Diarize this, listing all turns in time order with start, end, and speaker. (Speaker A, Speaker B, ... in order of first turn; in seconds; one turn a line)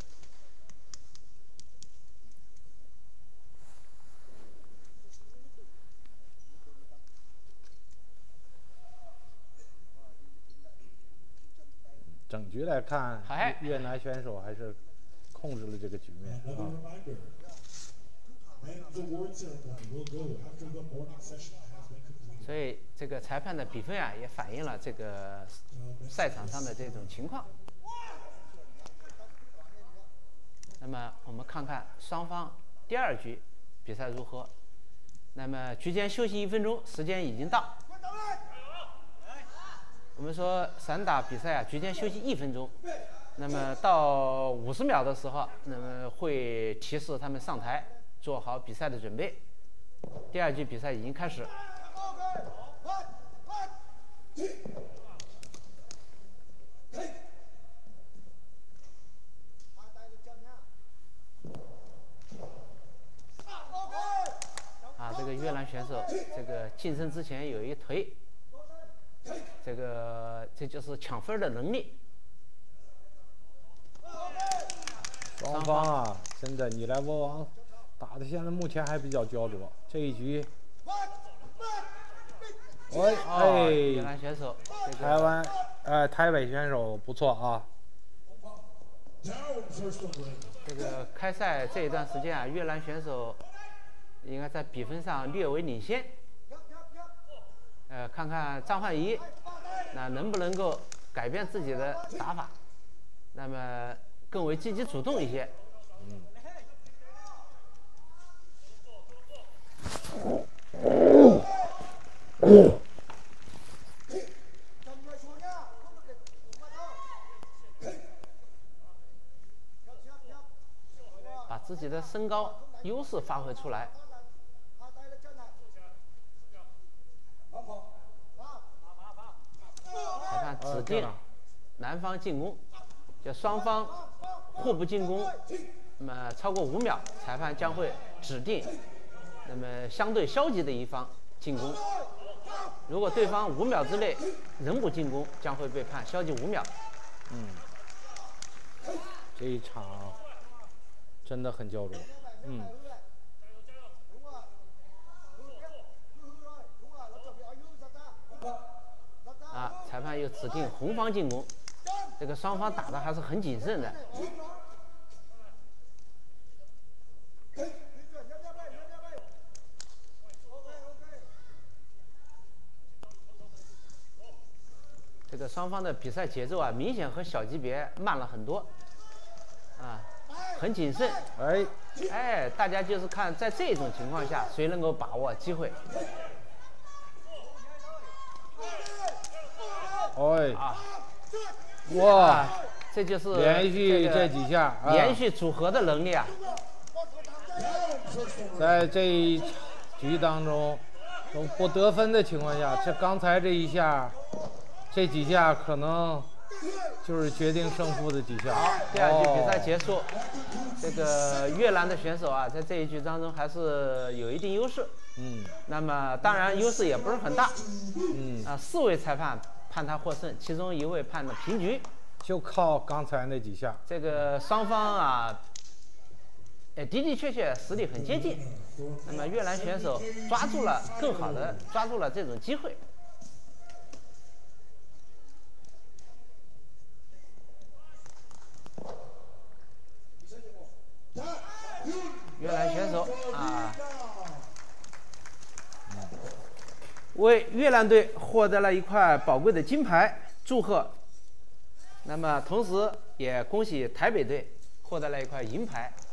Speaker A: 12.3-14.8
Speaker B: 13.2-13.9
Speaker A: 15.3-16.8
Speaker B: 22.4-27.5
Speaker B: 30.8-34.5
Speaker B: 35.3-37.8
Speaker B: 40.1-42.8
Speaker B: 43.4-49.4
Speaker B: 50.3-51.5
Speaker B: 65.0-68.2
Speaker B: 69.6-72.0
Speaker A: 75.3-80.5
Speaker B: 75.5-75.9
Speaker A: 82.9-84.1
Speaker B: 82.9-85.4
Speaker A: 85.0-87.7
Speaker B: 90.6-93.4
Speaker B: 94.2-96.1
Speaker B: 97.9-99.3
Speaker B: 99.9-102.5
Speaker B: 103.3-105.5
Speaker A: 106.0-106.3
Speaker B: 121.5-123.9
Speaker B: 130.2-131.1
Speaker A: 130.6-131.2
Speaker B: 131.8-132.6
Speaker B: 133.2-134.0
Speaker B: 134.5-135.4
Speaker B: 136.0-138.7
Speaker B: 139.4-141.8
Speaker B: 142.9-146.7
Speaker A: 147.3-147.6
Speaker A: 149.3-150.2
Speaker A: 151.2-152.8
Speaker B: 159.5-161.5
Speaker B: 162.2-164.1
Speaker B: 175.3-178.7
Speaker B: 179.8-181.2
Speaker A: 181.3-181.7
Speaker B: 182.1-185.8
Speaker A: 190.1-190.6
Speaker B: 190.5-190.9
Speaker A: 191.8-192.5
Speaker B: 191.9-194.3
Speaker A: 193.3-195.2
Speaker B: 194.8-196.4
Speaker A: 198.5-204.2
Speaker A: 204.9-206.3
Speaker A: 207.0-209.7
Speaker B: 208.5-210.2
Speaker B: 210.8-214.9
Speaker A: 215.2-215.6
Speaker B: 215.7-217.6
Speaker A: 218.1-218.5
Speaker B: 218.4-221.8
Speaker A: 222.2-223.8
Speaker B: 223.8-225.4
Speaker B: 226.8-232.8
Speaker B: 242.3-243.8
Speaker A: 245.9-246.2
Speaker B: 247.1-250.9
Speaker B: 252.0-255.9